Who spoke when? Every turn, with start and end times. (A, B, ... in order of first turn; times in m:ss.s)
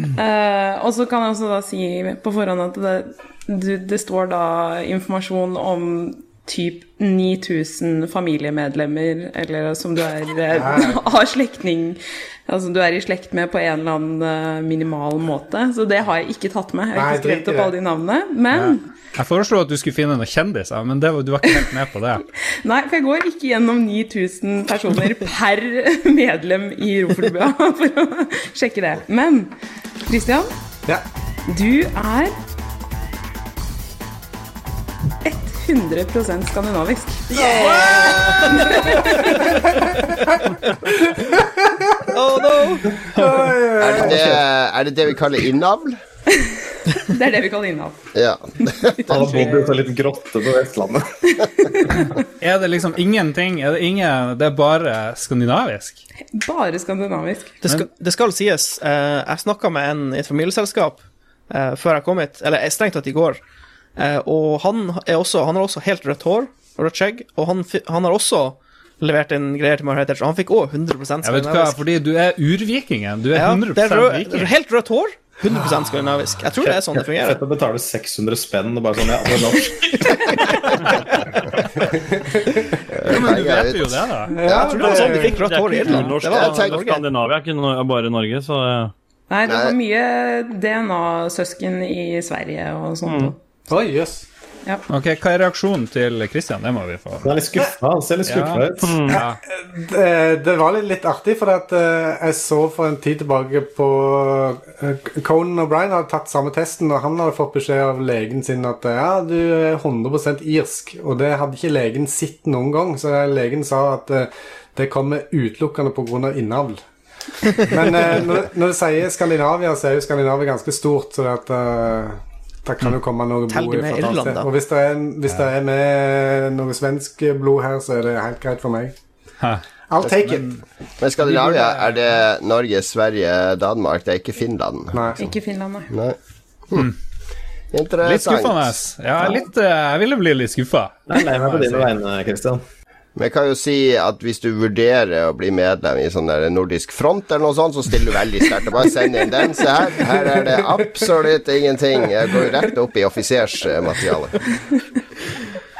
0:00.1-0:18.8 A
0:10.6-0:11.0 B
0:17.0-0:17.7 B
0:18.5-0:22.2 C
0:22.6-0:29.5 A
0:30.0-0:30.5 A
0:31.5-0:32.3 A
0:35.2-0:37.8 A
0:37.3-0:39.4 D
0:37.4-0:38.8 B
0:41.3-0:42.1 B
0:42.1-0:42.9 D
0:43.1-0:44.4 B
0:43.8-0:46.0 E
0:46.9-0:48.0 A
0:48.1-0:49.4 E
0:49.1-0:51.1 F
0:51.9-0:56.0 C
0:56.3-0:57.6 A
0:57.6-1:03.4 D
1:04.0-1:11.8 D
1:11.2-1:14.5 C
1:13.3-1:17.4 D
1:16.6-1:20.5 F
1:19.8-1:20.8 D
1:21.9-1:23.2 B
1:22.9-1:24.8 E
1:23.1-1:24.4 C
1:24.3-1:25.4 B
1:24.5-1:27.0 D
1:24.7-1:28.9 G
1:26.3-1:26.8 E
1:29.3-1:33.4 A
1:29.5-1:29.8 E
1:33.7-1:34.2 B
1:34.9-1:37.3 C
1:37.2-1:39.1 F
1:38.3-1:39.4 C
1:38.8-1:39.2 G
1:39.1-1:56.8 B
1:57.6-2:08.9 B
2:03.5-2:04.5 D
2:09.4-2:10.6 C
2:09.9-2:10.5 B
2:11.0-2:15.2 E
2:11.2-2:12.0 C
2:14.9-2:15.2 B
2:15.2-2:15.9 A
2:15.9-2:16.2 E
2:17.7-2:18.7 E
2:18.0-2:21.9 C
2:21.1-2:22.6 F
2:23.2-2:34.4 E
2:30.2-2:30.6 B